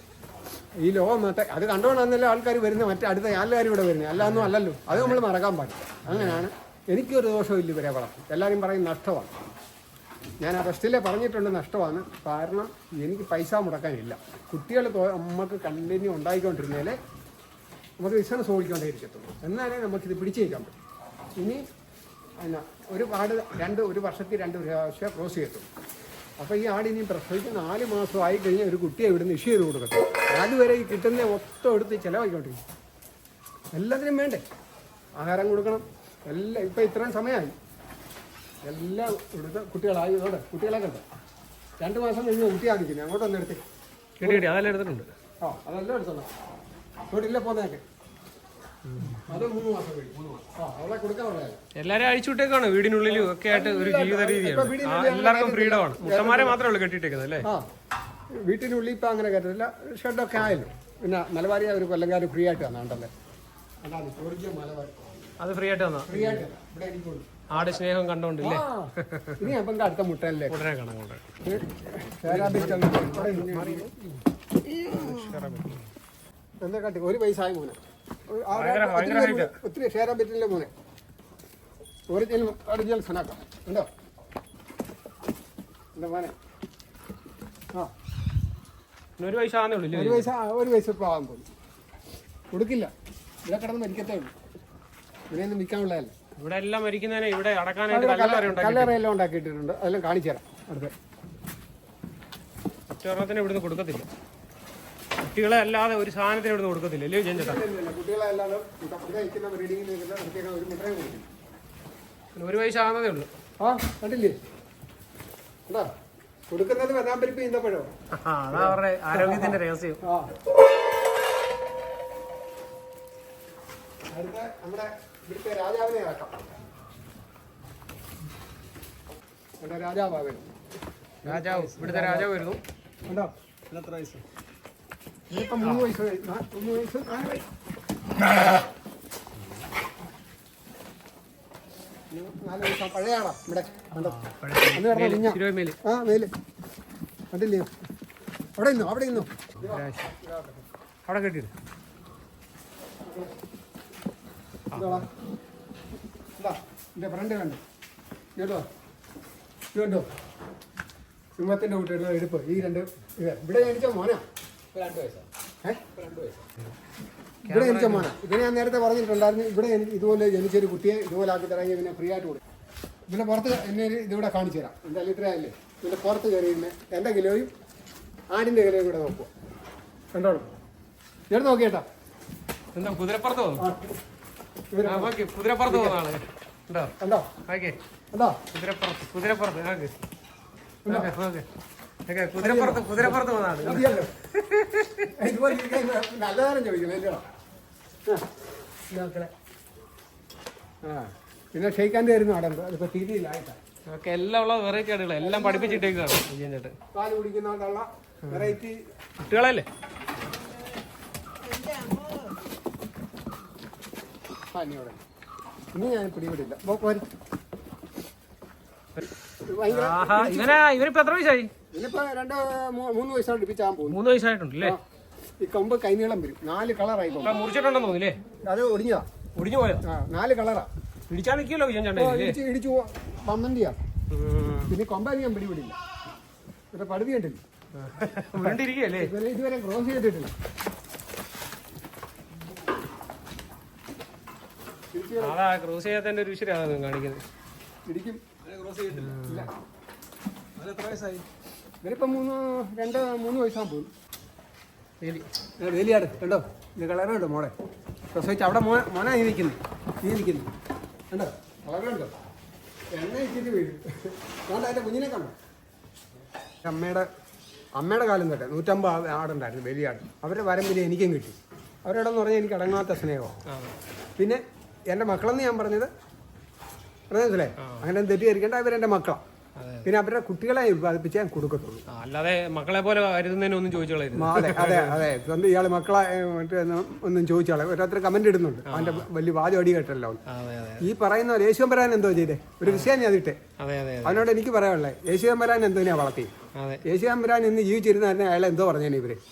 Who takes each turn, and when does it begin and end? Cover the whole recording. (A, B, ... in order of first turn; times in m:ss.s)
0:00.8-0:09.3 A
0:04.2-0:05.2 B
0:06.0-0:06.4 B
0:10.4-0:17.0 A
0:18.0-0:20.7 A
0:22.4-0:25.7 A
0:26.4-0:32.6 A
0:33.7-0:34.4 A
0:35.2-0:37.5 A
0:38.6-0:41.0 A
0:41.8-0:43.6 A
0:44.2-0:45.1 B
0:44.2-0:44.5 A
0:45.4-0:46.3 A
0:47.1-0:47.8 A
0:48.8-0:49.4 B
0:49.2-0:51.6 A
0:51.8-0:57.5 B
0:53.1-0:56.6 A
0:58.4-1:03.1 A
1:03.8-1:05.0 A
1:05.4-1:06.4 B
1:06.1-1:07.8 A
1:07.5-1:09.5 B
1:08.4-1:10.6 A
1:10.5-1:11.2 B
1:11.4-1:13.9 A
1:12.2-1:14.2 B
1:14.8-1:15.9 B
1:14.9-1:15.2 A
1:16.6-1:17.8 A
1:18.3-1:20.7 A
1:18.5-1:19.5 B
1:22.1-1:23.9 A
1:25.9-1:26.3 A
1:29.2-1:30.3 B
1:29.9-1:31.4 A
1:32.5-1:32.9 A
1:33.4-1:34.3 A
1:35.3-1:36.1 A
1:36.4-1:39.0 B
1:37.9-1:40.9 A
1:42.9-1:44.1 B
1:45.2-1:47.6 B
1:47.3-1:51.3 A
1:52.3-1:53.3 B
1:53.6-1:54.4 A
1:56.5-1:57.9 A
1:58.1-2:00.0 B
1:58.5-2:00.3 A
2:04.1-2:06.4 A
2:09.6-2:10.4 A
2:11.2-2:12.6 B
2:11.2-2:12.4 A
2:13.1-2:13.3 A
2:15.3-2:17.4 A
2:15.6-2:15.9 B
2:22.1-2:24.2 A
2:23.9-2:25.8 B
2:24.7-2:26.3 A
2:27.3-2:27.7 A
2:28.6-2:30.6 A
2:29.6-2:30.1 B
2:31.0-2:31.5 B
2:33.0-2:33.3 A
2:34.7-2:35.0 B
2:34.7-2:35.1 A
2:36.4-2:37.6 A
2:38.4-2:38.6 A
2:39.7-2:40.1 A
2:41.4-2:44.2 A
2:44.7-2:45.2 B
2:45.6-2:46.0 A
2:46.0-2:46.4 B
2:47.4-2:48.1 B
2:47.5-2:52.4 A
2:53.1-2:57.5 A
2:58.3-2:59.3 A
3:00.1-3:00.5 A
3:01.3-3:01.8 A
3:02.7-3:03.7 B
3:03.6-3:03.8 A
3:04.7-3:05.1 A
3:04.8-3:07.8 B
3:05.7-3:06.0 A
3:07.0-3:07.3 A
3:08.1-3:08.4 A
3:08.5-3:09.9 B
3:10.8-3:11.1 A
3:10.9-3:11.4 B
3:12.1-3:15.3 B
3:12.4-3:14.1 A
3:15.1-3:17.2 A
3:18.9-3:19.3 A
3:20.8-3:23.6 A
3:23.9-3:26.8 B
3:25.2-3:25.9 A
3:26.9-3:28.8 A
3:28.3-3:28.5 B
3:29.2-3:29.6 B
3:34.5-3:35.0 A
3:35.7-3:37.0 A
3:39.4-3:40.6 A
3:39.7-3:41.5 B
3:41.7-3:44.0 A
3:43.9-3:44.8 B
3:45.4-3:47.4 A
3:47.2-3:48.2 B
3:48.4-3:49.0 A
3:49.4-3:49.8 B
3:49.8-3:50.7 A
3:51.1-3:52.4 B
3:51.9-3:53.8 A
3:54.1-3:54.7 B
3:54.7-3:55.8 A
3:56.7-3:57.4 A
3:57.8-3:59.1 B
3:58.4-4:00.3 A
4:04.9-4:05.4 A
4:05.2-4:07.2 B
4:07.9-4:08.2 A
4:08.6-4:09.5 B
4:08.9-4:09.5 A
4:10.6-4:11.2 B
4:11.8-4:13.9 A
4:15.0-4:15.3 B
4:15.6-4:17.5 A
4:18.1-4:20.5 A
4:21.1-4:22.1 A
4:22.9-4:25.3 A
4:26.6-4:27.0 A
4:27.8-4:33.3 A
4:33.5-4:33.7 B
4:34.2-4:35.9 A
4:37.1-4:39.2 A
4:39.6-4:39.9 B
4:39.8-4:41.8 A
4:41.9-4:45.0 B
4:44.1-4:50.2 A
4:48.7-4:49.1 B
4:50.3-4:50.9 B
4:50.8-4:53.4 A
4:53.6-4:54.2 B
4:54.0-4:56.3 A
4:56.6-4:56.8 B
4:56.8-4:59.2 A